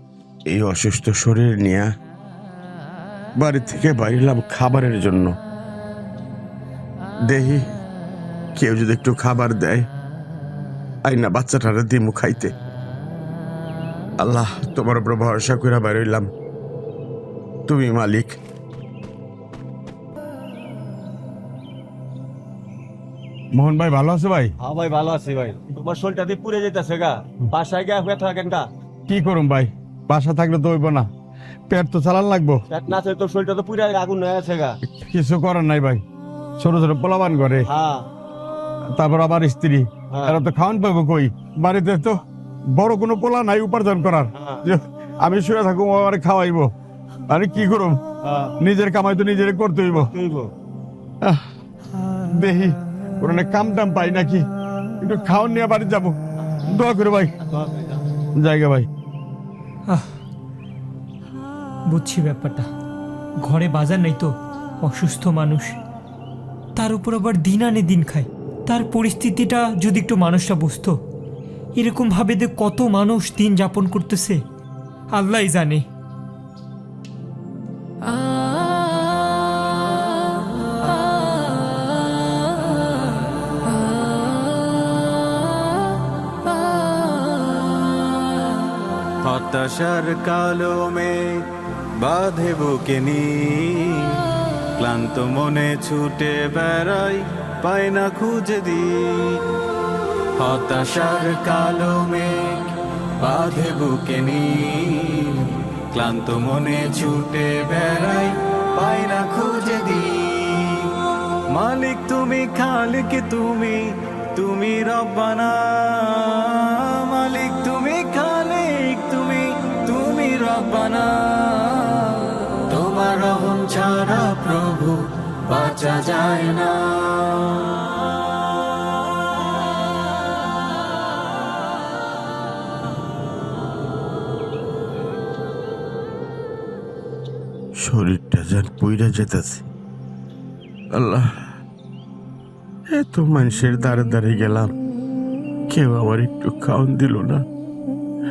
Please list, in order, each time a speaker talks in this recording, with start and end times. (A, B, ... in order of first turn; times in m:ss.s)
0:00.5-0:01.9 A
0:03.4-0:05.4 A
0:07.2-0:07.7 A
0:08.6-0:09.9 A
0:11.1-0:12.5 A
0:14.2-0:16.3 A
0:17.7-0:18.4 A
0:23.6-0:24.6 A
0:24.6-0:28.7 B
0:29.1-0:31.1 A
0:31.7-0:32.6 A
0:32.7-0:34.8 B
0:35.0-0:36.0 A
0:36.6-0:37.7 A
0:37.7-0:38.1 B
0:38.9-0:42.2 A
0:40.1-0:40.4 B
0:42.7-0:46.7 A
0:44.4-0:44.6 B
0:47.3-0:48.0 A
0:48.2-0:48.6 B
0:48.6-0:50.1 A
0:50.1-0:50.5 B
0:52.4-0:54.4 A
0:55.0-0:57.3 A
0:57.5-0:58.0 B
0:58.4-0:58.9 A
1:01.9-1:02.7 C
1:03.4-1:05.8 C
1:06.8-1:11.0 C
1:11.8-1:14.4 C
1:15.1-1:15.8 C
1:29.2-1:31.5 D
1:32.0-1:39.4 D
1:40.4-1:42.7 D
1:43.2-1:51.0 D
1:51.5-1:53.8 D
1:54.3-2:08.0 D
2:17.8-2:19.7 A
2:20.9-2:21.4 A
2:22.9-2:24.7 A
2:25.7-2:27.5 A